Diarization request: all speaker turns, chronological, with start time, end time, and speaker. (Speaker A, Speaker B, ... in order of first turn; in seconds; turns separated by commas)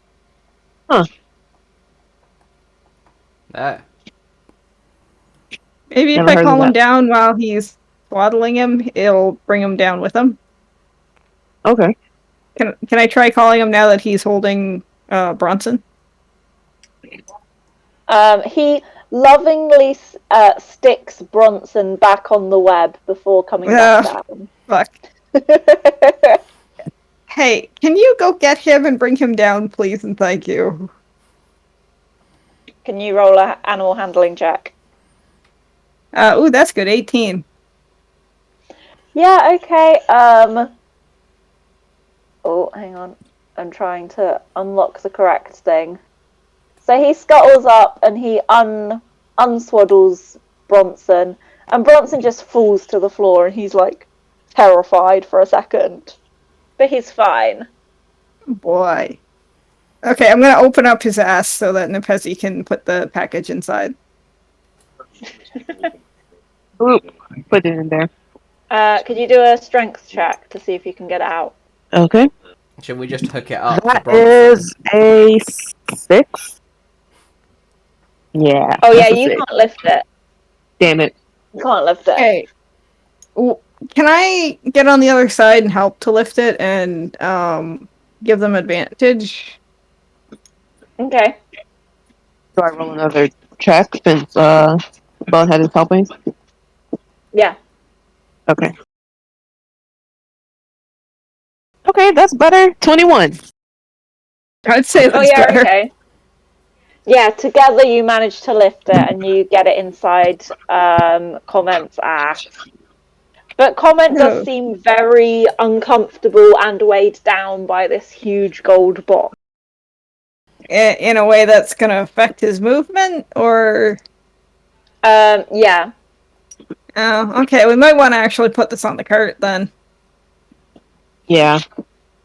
Speaker A: 3.5-3.8, Speaker B: 5.9-10.4, Speaker C: 6.2-6.7, Speaker C: 11.7-11.9, Speaker B: 12.6-15.8, Speaker D: 18.1-24.5, Speaker B: 23.6-24.1, Speaker B: 24.7-24.9, Speaker D: 25.4-26.4, Speaker B: 27.3-30.9, Speaker D: 32.9-34.7, Speaker B: 36.1-37.5, Speaker D: 39.1-40.7, Speaker D: 42.5-46.0, Speaker D: 46.8-56.1, Speaker D: 56.8-57.7, Speaker B: 58.6-59.2, Speaker B: 60.0-63.9, Speaker D: 65.5-65.9, Speaker C: 66.8-68.1, Speaker D: 68.7-71.5, Speaker C: 71.9-72.3, Speaker A: 72.8-74.6, Speaker C: 73.7-76.5, Speaker C: 78.3-79.4, Speaker D: 78.8-80.0, Speaker C: 80.8-81.1, Speaker D: 81.5-82.3, Speaker B: 82.2-82.5, Speaker B: 83.4-89.6, Speaker D: 91.0-91.3, Speaker C: 92.6-94.8, Speaker C: 95.3-96.1, Speaker C: 101.9-103.4, Speaker B: 104.7-105.7, Speaker D: 105.1-105.9, Speaker D: 107.1-112.5, Speaker D: 113.6-119.3, Speaker B: 114.1-114.5, Speaker B: 120.7-124.0, Speaker D: 125.0-125.9, Speaker B: 127.0-129.7, Speaker C: 131.3-131.6